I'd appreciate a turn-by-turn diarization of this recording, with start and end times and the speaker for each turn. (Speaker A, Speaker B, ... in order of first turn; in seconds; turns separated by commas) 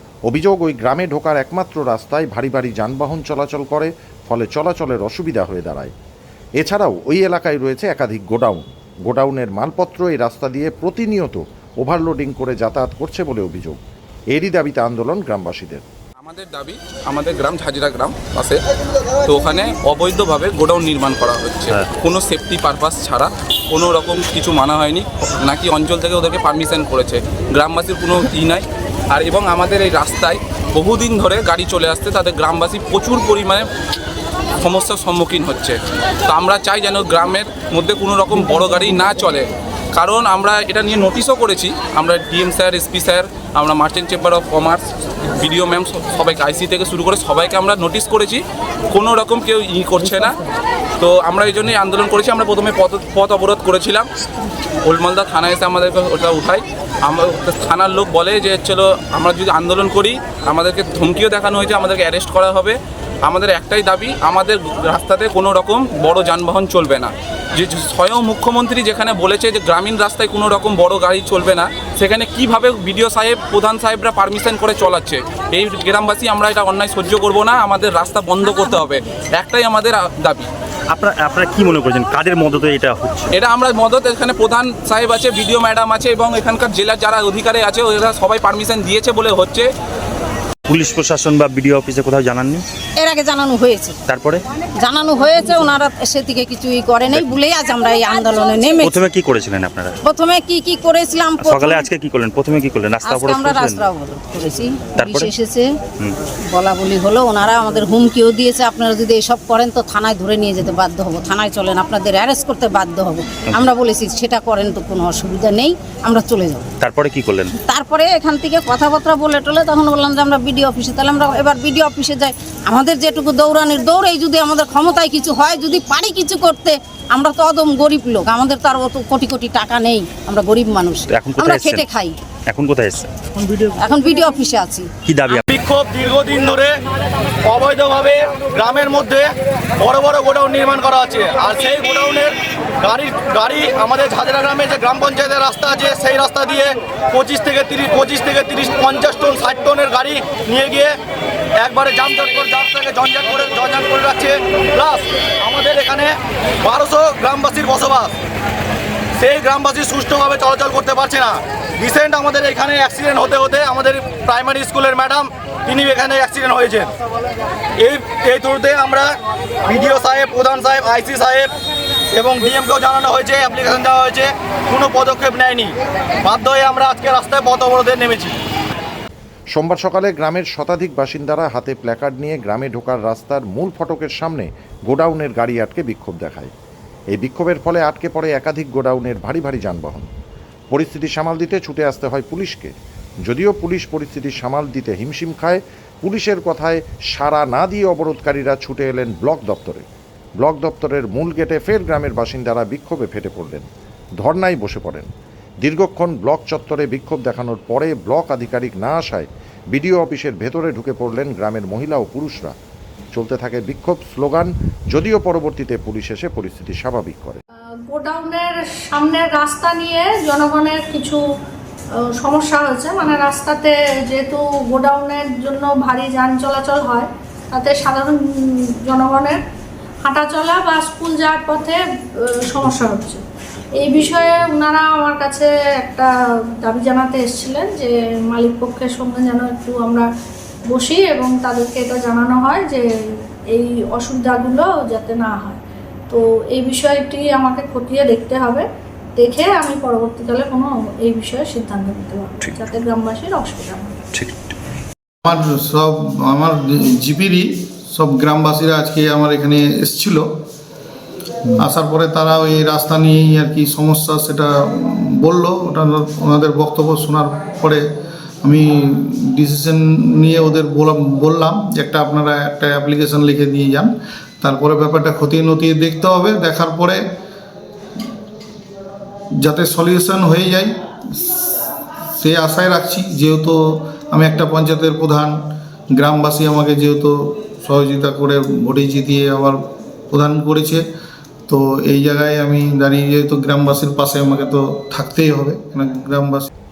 Speaker A: 0.3-5.9, Speaker A: 6.6-13.8, Speaker A: 14.3-15.8, Speaker B: 16.2-18.6, Speaker B: 19.2-33.6, Speaker B: 34.6-44.8, Speaker B: 45.3-50.4, Speaker B: 51.0-54.1, Speaker B: 54.9-80.5, Speaker C: 80.9-83.3, Speaker B: 83.3-89.7, Speaker C: 90.7-92.6, Speaker D: 93.0-94.0, Speaker C: 94.1-94.4, Speaker D: 94.7-99.0, Speaker C: 97.1-97.4, Speaker C: 98.8-100.0, Speaker D: 100.0-101.9, Speaker C: 101.4-103.9, Speaker D: 103.0-105.7, Speaker C: 104.9-105.3, Speaker D: 106.5-116.7, Speaker C: 113.5-113.7, Speaker C: 116.8-117.5, Speaker D: 117.6-132.2, Speaker C: 131.1-131.9, Speaker C: 132.5-133.1, Speaker D: 133.8-135.4, Speaker C: 135.0-135.5, Speaker E: 135.5-136.7, Speaker E: 137.5-139.2, Speaker E: 139.8-142.3, Speaker E: 142.8-150.9, Speaker E: 151.6-156.1, Speaker E: 156.6-158.1, Speaker E: 159.2-166.9, Speaker E: 167.8-169.0, Speaker E: 169.7-171.5, Speaker E: 172.1-175.7, Speaker E: 176.2-178.3, Speaker A: 179.6-186.5, Speaker A: 187.1-190.1, Speaker A: 190.7-192.7, Speaker A: 193.3-199.8, Speaker A: 200.4-203.7, Speaker A: 204.2-205.1, Speaker A: 205.6-212.5, Speaker A: 213.2-217.4, Speaker F: 217.9-221.2, Speaker F: 222.2-229.4, Speaker F: 230.0-233.2, Speaker F: 233.8-236.1, Speaker F: 236.6-240.1, Speaker F: 240.7-248.7, Speaker F: 249.2-254.0, Speaker G: 255.2-260.3, Speaker G: 261.6-267.9, Speaker G: 268.4-277.0, Speaker G: 279.4-281.3, Speaker G: 282.1-285.4, Speaker G: 285.9-289.6, Speaker G: 290.1-290.9, Speaker G: 291.5-296.5